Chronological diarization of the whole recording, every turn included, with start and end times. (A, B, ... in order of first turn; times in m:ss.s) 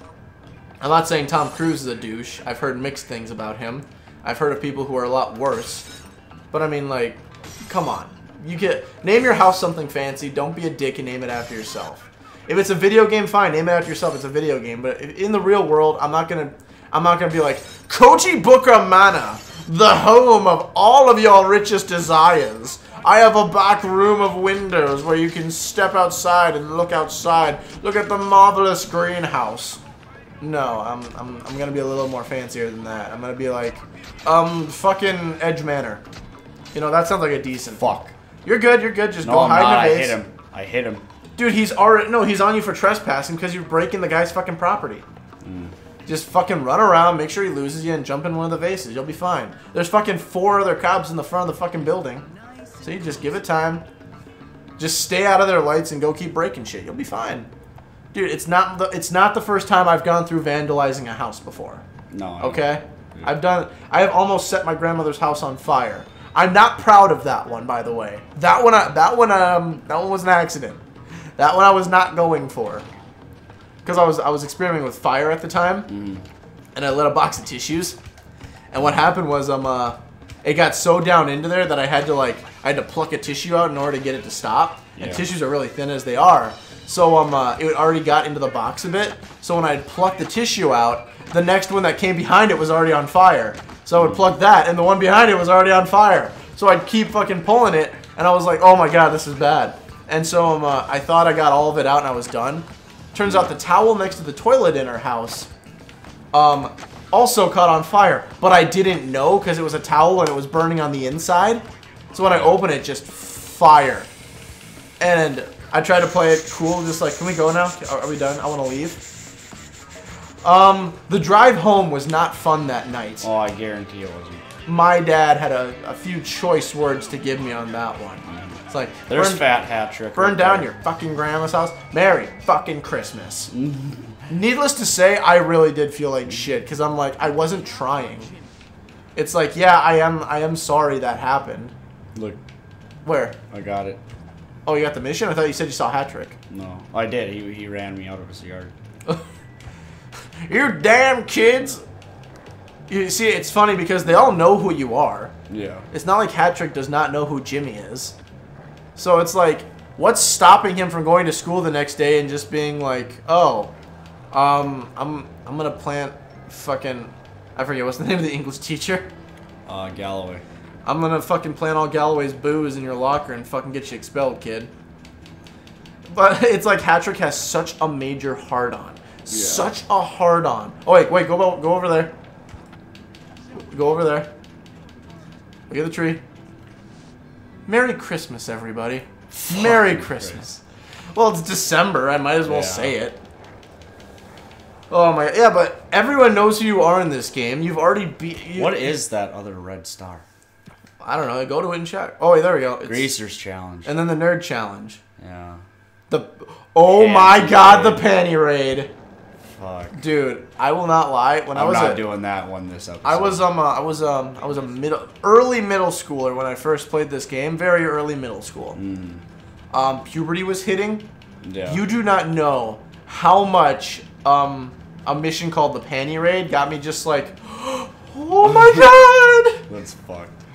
0:00.8-0:05.9 A
0:06.5-0:29.8 A
0:30.4-0:36.0 A
0:36.7-0:37.9 A
0:37.8-0:38.1 B
0:38.4-0:40.2 A
0:39.2-0:41.1 B
0:41.4-0:45.0 A
0:45.4-0:45.7 B
0:46.1-0:52.2 A
0:52.8-0:53.8 A
0:54.8-0:57.5 A
0:58.1-1:01.8 A
1:02.1-1:03.3 B
1:02.4-1:10.8 A
1:11.4-1:12.9 A
1:13.8-1:15.9 A
1:15.9-1:16.3 B
1:16.8-1:18.0 A
1:18.7-1:45.5 A
1:25.0-1:25.2 B
1:34.0-1:34.2 B
1:43.3-1:43.5 B
1:46.3-1:54.1 A
1:52.3-1:52.6 B
1:55.0-1:59.0 A
2:00.4-2:03.3 A
2:03.2-2:04.4 B
2:04.6-2:09.4 A
2:08.3-2:08.6 B
2:09.1-2:10.7 B
2:10.2-2:13.5 A
2:13.5-2:14.2 B
2:14.3-2:18.3 A
2:19.2-2:21.7 A
2:22.2-2:22.4 B
2:23.0-2:23.4 A
2:23.5-2:24.0 B
2:24.7-2:26.4 A
2:26.5-2:28.7 B
2:30.4-2:31.8 A
2:32.9-2:35.3 A
2:35.5-2:35.9 B
2:35.9-2:38.2 A
2:39.0-2:43.7 A
2:44.3-2:49.1 A
2:49.7-2:50.4 B
2:50.8-2:54.7 A
2:56.1-3:02.1 A
2:59.3-2:59.7 B
3:03.5-3:04.3 A
3:05.7-3:06.2 A
3:07.7-3:10.6 A
3:09.3-3:10.4 B
3:11.1-3:13.2 A
3:12.4-3:13.0 B
3:14.9-3:18.9 A
3:18.5-3:20.2 B
3:21.0-3:23.1 A
3:22.8-3:23.9 B
3:23.8-3:25.0 A
3:25.2-3:25.6 B
3:26.1-3:28.9 A
3:26.9-3:28.1 B
3:29.5-3:30.0 B
3:29.9-3:32.0 A
3:31.5-3:33.5 B
3:33.0-3:38.8 A
3:38.8-3:39.2 B
3:39.7-3:41.1 A
3:41.4-3:41.8 B
3:41.7-3:49.6 A
3:48.4-3:48.8 B
3:49.7-3:50.4 B